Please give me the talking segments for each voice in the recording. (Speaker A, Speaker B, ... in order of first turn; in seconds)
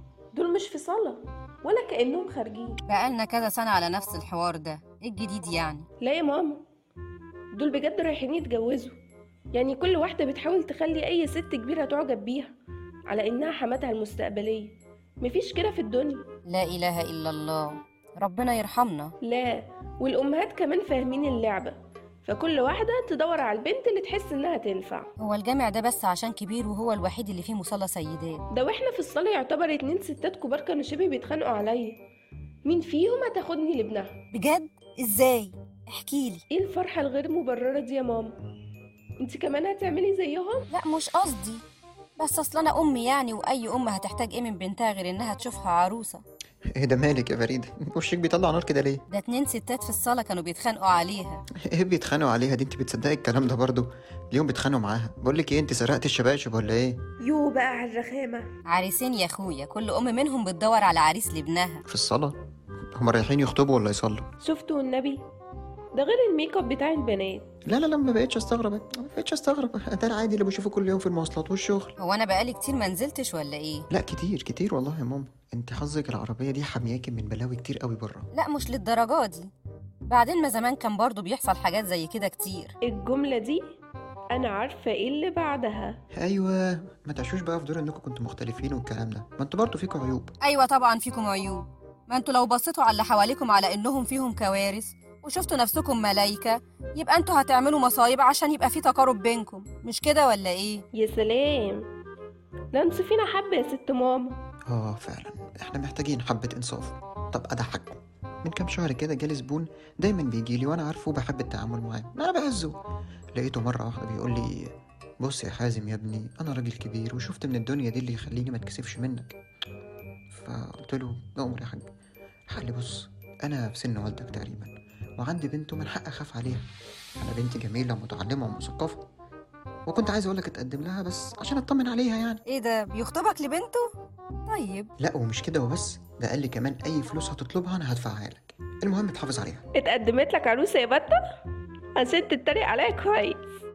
Speaker A: 0.3-2.8, 6.0-6.6, 7.5-9.0, 9.5-12.5, 13.1-16.2, 19.2-25.1, 28.5-32.0, 32.7-34.2, 36.5-38.3, 39.2-40.7, 57.2-58.5, 64.4-65.2, 65.9-67.4, 82.8-83.7, 84.3-86.0, 101.0-101.9, 102.7-104.4, 139.8-141.2, 142.0-143.6
Speaker B: 2.9-5.9, 16.5-19.1, 25.2-28.4, 34.3-36.4, 40.7-41.6, 42.2-46.2, 49.1-51.4, 58.7-61.8, 72.0-73.8, 78.3-79.5, 80.1-82.7, 90.4-100.8, 132.5-133.9, 134.5-134.9
Speaker C: 46.8-49.0, 51.7-57.0, 61.9-62.4, 63.0-64.2, 67.7-71.9, 73.9-78.3, 86.1-90.3, 104.7-112.7, 113.3-119.4, 120.3-121.9, 122.5-126.7, 127.2-129.0, 129.9-132.4, 135.0-139.6